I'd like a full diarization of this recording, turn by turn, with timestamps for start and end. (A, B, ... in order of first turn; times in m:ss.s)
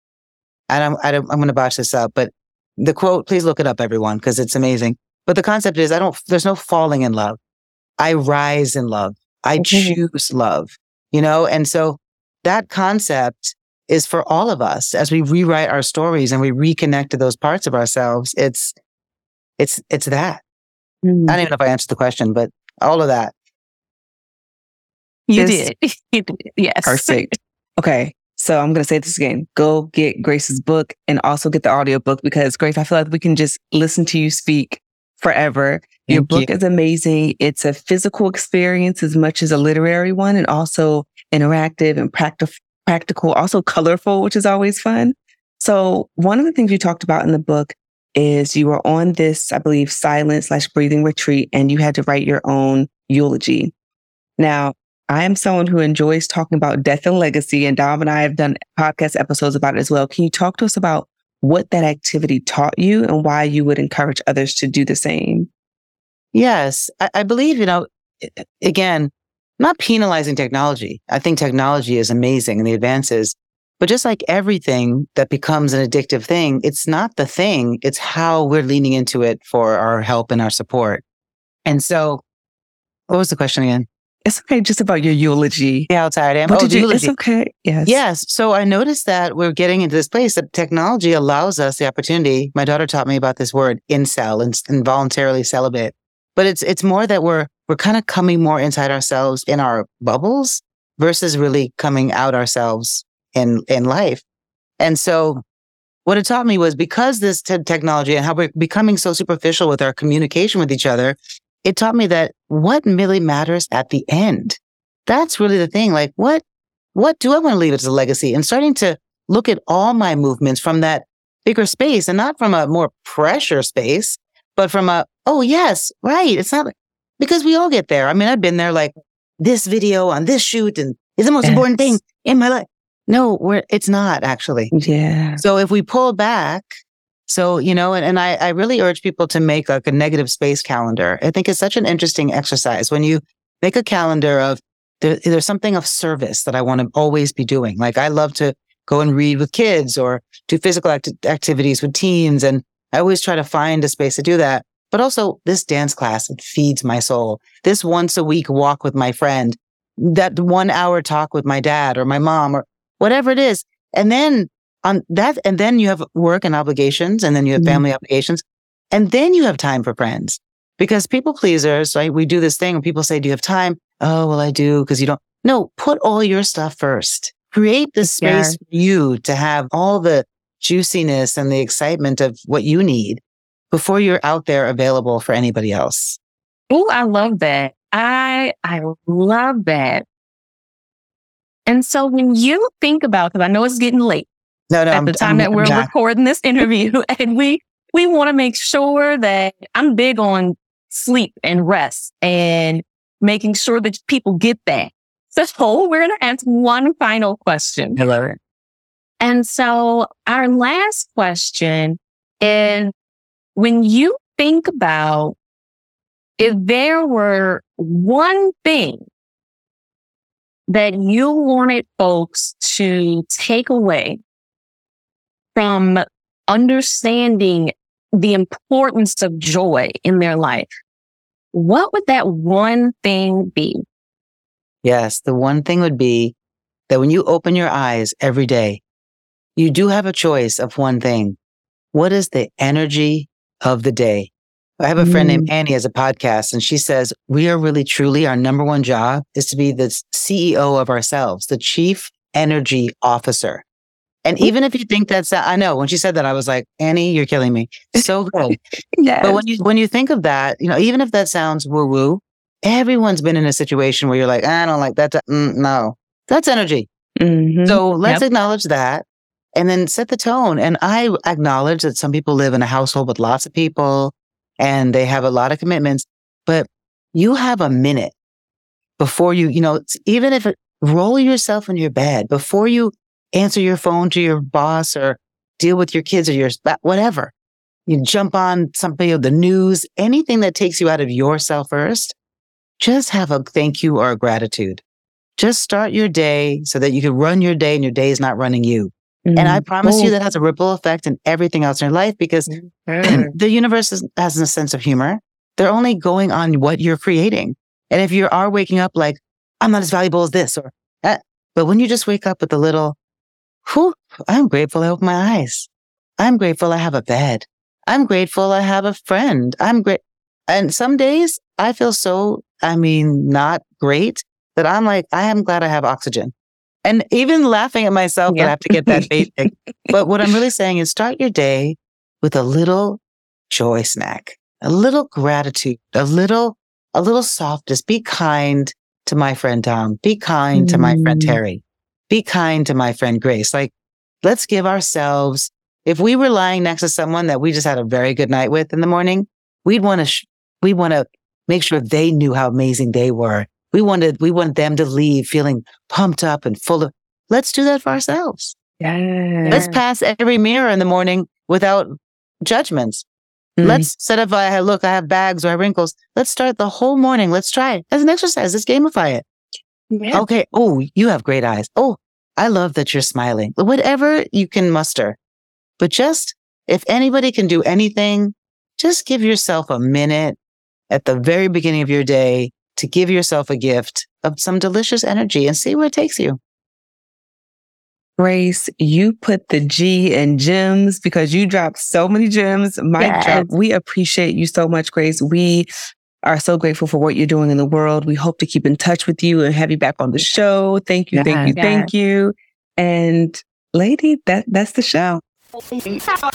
0:00.7-0:07.4 A
0:08.0-0:18.7 A
0:09.6-0:10.0 B
0:19.6-0:20.4 A
0:21.0-0:21.4 B
0:21.3-0:23.3 A
0:25.3-0:27.3 C
0:25.4-0:25.7 B
0:26.8-0:53.7 B
0:36.1-0:36.5 A
0:54.4-1:05.5 B
1:06.3-1:21.0 A
1:21.6-1:22.2 A
1:23.1-1:23.9 A
1:24.2-1:25.9 B
1:25.9-1:27.1 A
1:26.5-1:28.0 B
1:27.8-1:44.2 A
1:44.8-1:45.4 A
1:46.0-1:56.4 A
1:56.9-2:14.7 A
2:14.7-2:15.4 B
2:15.4-2:16.7 A
2:17.3-3:06.2 A
2:47.6-2:47.8 B
2:58.0-2:58.6 C
3:06.7-3:10.0 C
3:11.6-3:14.3 C
3:14.7-3:15.9 A
3:14.9-3:28.0 C
3:28.0-3:28.4 A
3:29.2-3:32.9 C
3:33.6-3:35.4 C
3:36.4-3:39.0 C
3:40.7-3:44.2 C
3:45.5-3:50.7 C
3:51.5-3:53.8 C
3:54.8-3:56.3 A
3:56.9-3:58.8 A
3:59.6-4:01.4 A
4:01.9-4:13.6 A
4:05.0-4:05.5 B
4:14.2-4:18.6 A
4:19.0-4:19.4 B
4:19.2-4:26.9 A
4:27.2-4:28.2 B
4:27.6-4:29.0 A
4:29.5-4:38.1 A
4:39.0-4:47.3 A
4:47.9-4:52.1 A
4:52.8-4:54.8 A
4:55.4-5:02.5 A
4:59.2-5:00.1 B
5:02.5-5:03.3 C
5:03.0-5:13.0 A
5:13.6-5:15.7 A
5:16.2-5:26.3 A
5:26.8-5:43.7 A
5:28.3-5:29.1 B
5:40.5-5:41.4 B
5:44.2-5:58.5 A
5:58.8-5:59.7 B
5:59.4-5:59.8 C
5:59.5-6:03.0 A
6:03.6-6:03.9 B
6:03.6-6:09.2 A
6:09.9-6:10.2 B
6:10.1-6:15.2 A
6:15.8-6:20.4 A
6:20.9-6:26.4 A
6:28.2-6:35.7 B
6:33.0-6:33.5 C
6:36.2-6:45.1 B
6:41.3-6:41.5 A
6:41.6-6:41.9 C